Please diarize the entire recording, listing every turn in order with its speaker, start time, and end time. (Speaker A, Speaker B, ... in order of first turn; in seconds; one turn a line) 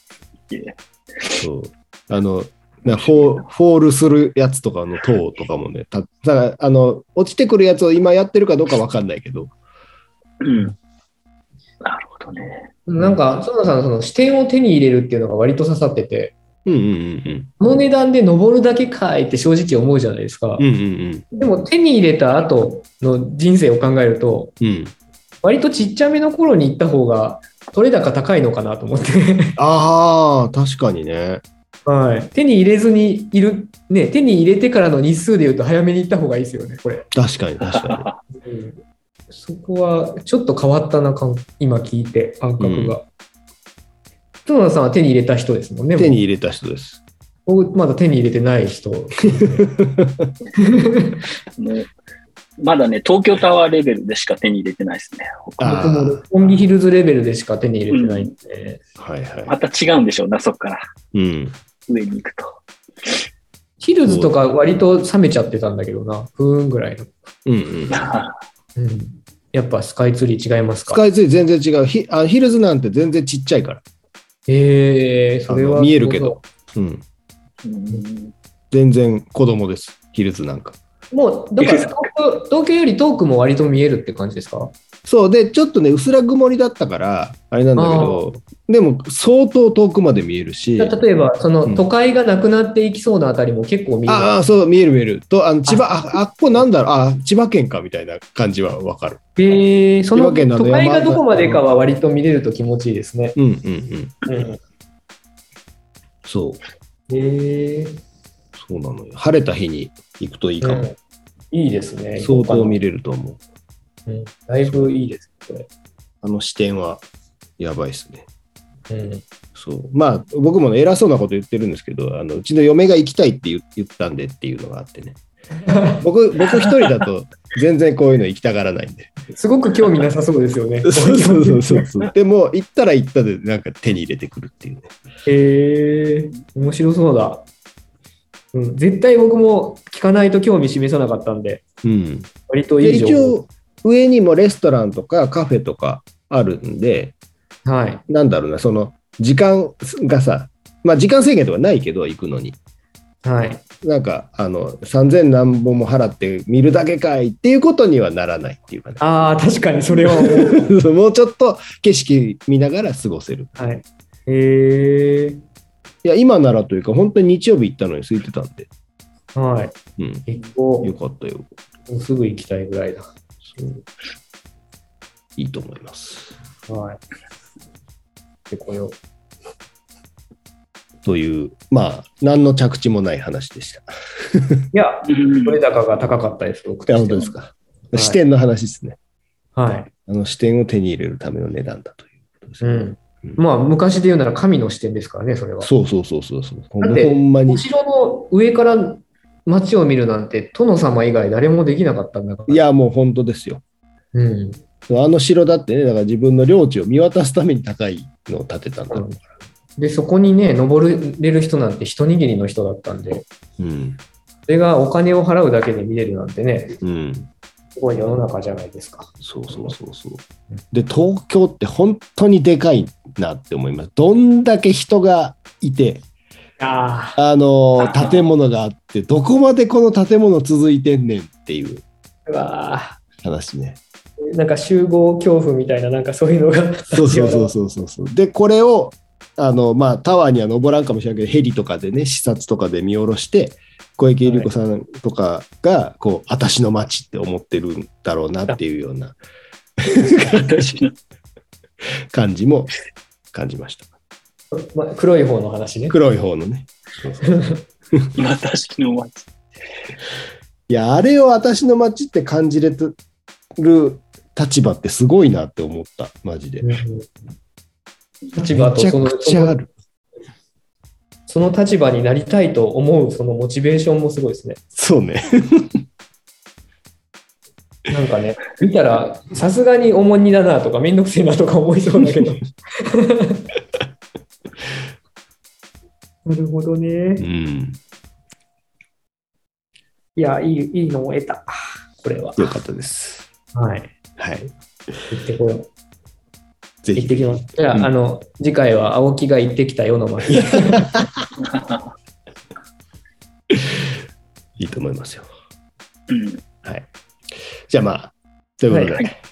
Speaker A: 0.5-1.4
Speaker B: 1.4-9.5
Speaker A: 2.9-3.4
Speaker A: 10.4-10.8
Speaker A: 11.8-12.7
Speaker C: 12.9-16.4
Speaker B: 16.6-17.5
Speaker C: 17.6-20.7
Speaker B: 20.6-21.3
Speaker A: 21.3-21.6
Speaker C: 21.4-24.5
Speaker B: 24.6-24.9
Speaker C: 25.4-29.6
Speaker B: 29.6-31.4
Speaker C: 31.9-37.1
Speaker B: 37.1-38.1
Speaker A: 37.6-38.2
Speaker C: 38.4-38.8
Speaker C: 39.3-43.0
Speaker B: 42.6-43.0
Speaker C: 44.5-46.2
Speaker B: 46.0-47.0
Speaker C: 47.5-49.7
Speaker B: 49.4-50.3
Speaker C: 50.6-51.2
Speaker A: 51.6-51.9
Speaker A: 52.6-55.9
Speaker B: 55.6-56.3
Speaker C: 55.6-58.8
Speaker A: 57.9-58.3
Speaker B: 59.0-59.5
Speaker A: 59.5-60.8
Speaker B: 61.1-61.5
Speaker A: 61.9-63.1
Speaker C: 63.8-67.1
Speaker B: 64.0-64.4
Speaker B: 67.5-68.1
Speaker A: 67.9-68.3
Speaker C: 68.8-71.0
Speaker B: 70.9-73.8
Speaker C: 74.5-76.4
Speaker B: 75.5-77.0
Speaker A: 77.6-78.3
Speaker B: 78.7-80.8
Speaker C: 81.1-84.7
Speaker A: 81.6-81.9
Speaker B: 85.0-91.0
Speaker C: 87.8-88.3
Speaker C: 90.8-94.3
Speaker B: 94.1-99.2
Speaker C: 95.7-96.6
Speaker C: 99.4-103.4
Speaker B: 100.2-101.6
Speaker B: 103.4-104.2
Speaker C: 104.3-104.6
Speaker B: 106.2-106.6
Speaker C: 107.1-108.0
Speaker B: 108.6-110.9
Speaker C: 110.6-111.0
Speaker C: 111.5-112.8
Speaker B: 112.2-113.4
Speaker C: 114.1-115.7
Speaker B: 114.6-114.9
Speaker B: 116.2-117.0
Speaker B: 117.6-118.3
Speaker C: 118.9-119.2
Speaker B: 119.5-125.2
Speaker C: 125.7-126.0
Speaker B: 126.0-129.1
Speaker C: 129.3-131.8
Speaker B: 130.8-134.9
Speaker C: 135.3-137.5
Speaker C: 138.5-141.6
Speaker B: 141.8-142.3
Speaker C: 142.5-143.4
Speaker B: 142.8-147.1
Speaker C: 147.7-148.0
Speaker B: 148.1-152.6
Speaker C: 153.2-153.6
Speaker B: 153.8-159.0
Speaker C: 159.0-160.7
Speaker B: 159.9-163.5
Speaker C: 163.6-165.4
Speaker B: 166.0-168.7
Speaker C: 169.3-169.8
Speaker B: 170.0-170.3
Speaker C: 170.3-170.9
Speaker B: 170.8-171.5
Speaker C: 171.9-173.1
Speaker B: 173.4-173.9
Speaker B: 175.4-176.3
Speaker C: 176.7-177.0
Speaker C: 178.5-179.0
Speaker B: 181.0-184.6
Speaker C: 184.7-187.3
Speaker A: 185.1-185.6
Speaker B: 186.9-189.0
Speaker C: 187.9-188.2
Speaker C: 189.6-189.9
Speaker B: 190.1-193.4
Speaker C: 192.6-195.7
Speaker B: 195.6-197.7
Speaker C: 196.8-202.7
Speaker B: 202.5-203.6
Speaker C: 204.1-204.6
Speaker B: 204.9-209.1
Speaker C: 208.9-209.2
Speaker C: 209.8-213.3
Speaker B: 213.6-214.0
Speaker C: 214.5-216.8
Speaker B: 216.8-217.3
Speaker C: 217.8-219.7
Speaker B: 219.2-226.1
Speaker C: 226.6-227.2
Speaker B: 227.2-231.8
Speaker A: 227.8-228.2
Speaker C: 232.3-233.0
Speaker B: 233.2-233.8
Speaker C: 234.3-237.5
Speaker B: 236.9-249.2
Speaker C: 244.2-244.5
Speaker B: 249.8-250.9
Speaker A: 250.6-250.9
Speaker B: 252.1-252.7
Speaker B: 253.3-253.9
Speaker C: 254.5-256.0
Speaker B: 255.9-257.4
Speaker C: 257.2-257.6
Speaker A: 258.2-259.3
Speaker B: 260.7-263.0
Speaker B: 263.6-266.8
Speaker C: 266.6-267.1
Speaker C: 268.3-269.6
Speaker B: 268.5-269.7
Speaker C: 271.3-274.6
Speaker B: 274.8-275.8
Speaker C: 277.9-283.5
Speaker C: 286.3-287.3
Speaker B: 287.2-287.8
Speaker C: 290.2-292.6
Speaker B: 292.4-293.3
Speaker C: 293.5-293.9
Speaker B: 294.2-294.5
Speaker C: 295.1-295.7
Speaker B: 296.8-297.9
Speaker C: 297.0-300.9
Speaker B: 300.6-301.3
Speaker A: 301.4-301.9
Speaker B: 303.5-303.9
Speaker B: 304.6-305.3
Speaker A: 306.1-306.4
Speaker B: 306.6-306.9
Speaker B: 307.7-309.1
Speaker C: 308.7-309.0